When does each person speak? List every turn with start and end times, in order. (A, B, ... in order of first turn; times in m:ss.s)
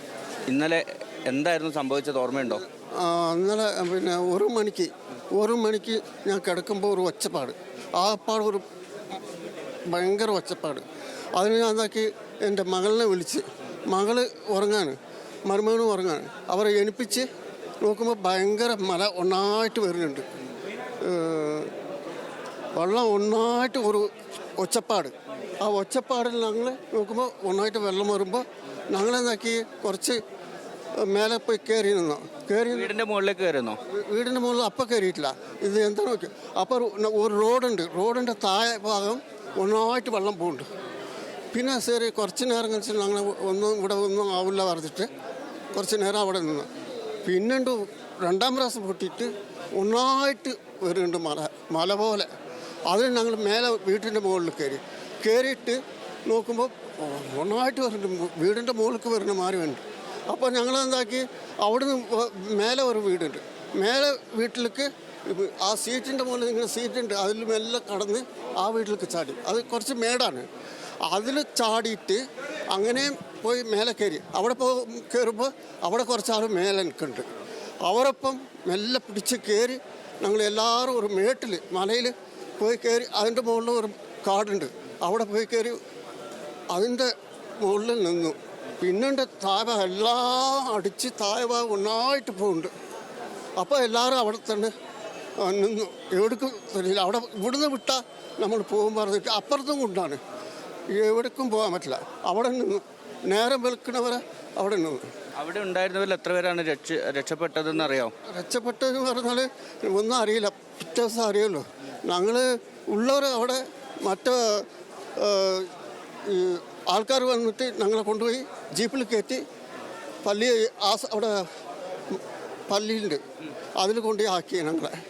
0:00.5-0:02.6 A
0:03.0-0:08.6 B
0:09.9-0:10.8 B
0:11.3-0:17.3 B
0:17.8-0:20.2 B
0:21.0-0:21.7 B
0:22.8-0:30.2 B
0:31.0-0:32.9 B
0:32.7-0:33.8 A
0:33.9-0:40.6 B
0:41.5-0:45.1 B
0:45.7-0:46.7 B
0:47.2-0:52.3 B
0:52.9-1:10.5 B
1:11.0-1:17.2 B
1:17.8-1:25.8 B
1:26.7-1:32.7 B
1:33.6-1:34.7 B
1:35.4-1:40.2 B
1:40.9-1:45.0 B
1:45.4-1:48.1 A
1:48.2-1:55.7 B
1:56.2-1:59.4 B
2:00.2-2:01.5 B
2:02.1-2:03.2 B
2:03.8-2:05.0 B